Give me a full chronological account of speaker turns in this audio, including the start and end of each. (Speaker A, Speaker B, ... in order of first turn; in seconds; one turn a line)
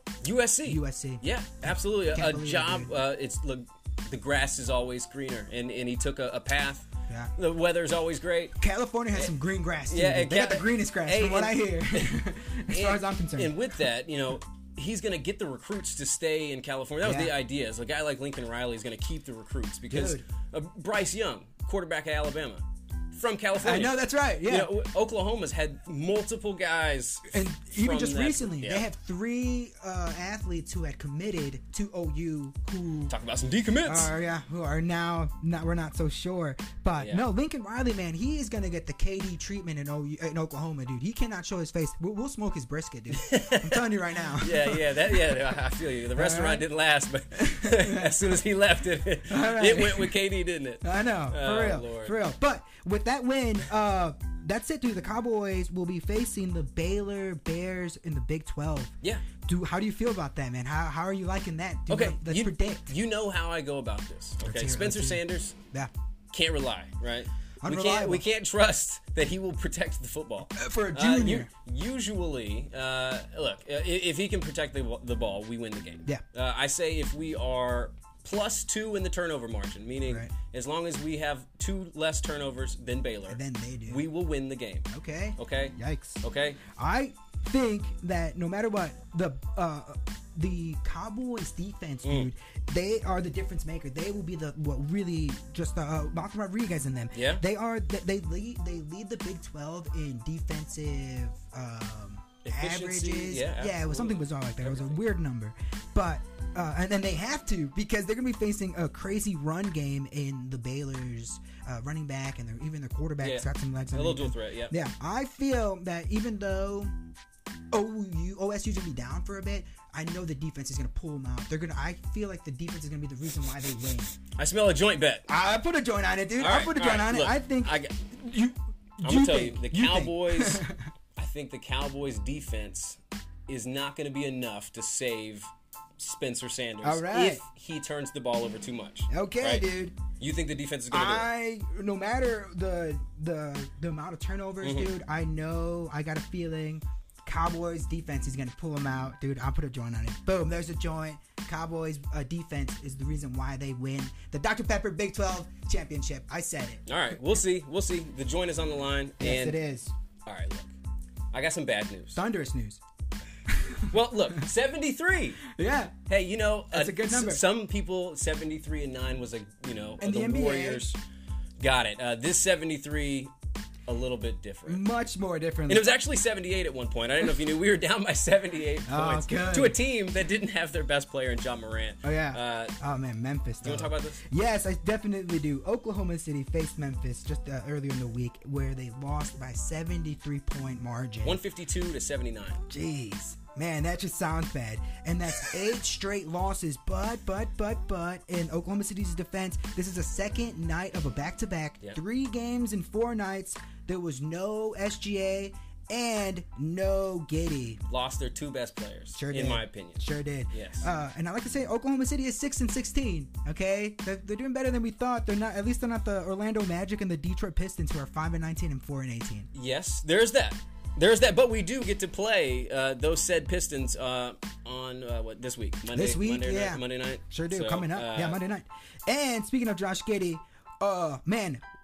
Speaker A: 0.2-8.6
Speaker B: 0.6-2.9
Speaker B: 8.6-13.6
Speaker A: 9.9-28.8
Speaker B: 17.0-17.3
Speaker B: 19.9-20.2
Speaker B: 23.6-24.7
Speaker B: 27.3-33.1
Speaker A: 33.1-34.1
Speaker B: 33.8-45.5
Speaker A: 37.0-37.2
Speaker A: 43.1-52.2
Speaker B: 46.1-46.7
Speaker B: 47.3-48.4
Speaker B: 49.3-50.2
Speaker B: 50.8-58.9
Speaker B: 59.5-62.9
Speaker A: 61.9-65.5
Speaker B: 64.4-65.9
Speaker A: 66.3-84.8
Speaker B: 67.6-68.2
Speaker B: 70.5-71.5
Speaker B: 83.3-84.0
Speaker B: 84.9-86.2
Speaker A: 85.4-86.6
Speaker B: 86.7-117.0
Speaker A: 92.0-92.3
Speaker A: 97.1-97.4
Speaker A: 102.4-105.0
Speaker A: 113.2-114.7
Speaker B: 117.7-124.1
Speaker A: 124.3-125.3
Speaker B: 125.3-130.8
Speaker A: 126.4-127.9
Speaker A: 129.0-130.6
Speaker A: 131.2-139.7
Speaker B: 136.8-137.4
Speaker B: 139.1-140.0
Speaker A: 140.2-141.3
Speaker B: 140.9-157.3
Speaker A: 144.6-144.9
Speaker A: 156.8-159.6
Speaker B: 159.2-159.9
Speaker A: 160.2-160.7
Speaker A: 161.3-162.2
Speaker B: 162.1-162.8
Speaker B: 163.5-164.4
Speaker A: 163.9-165.4
Speaker B: 165.5-165.9
Speaker A: 166.1-171.0
Speaker B: 166.7-167.4
Speaker B: 170.0-170.8
Speaker A: 171.6-173.3
Speaker A: 173.9-174.8
Speaker B: 174.7-176.0
Speaker A: 175.7-182.8
Speaker B: 178.8-179.8
Speaker B: 182.0-191.4
Speaker A: 183.6-184.2
Speaker A: 191.2-192.6
Speaker B: 192.7-207.8
Speaker A: 207.9-210.9
Speaker B: 209.1-219.5
Speaker A: 219.5-228.4
Speaker B: 225.9-231.6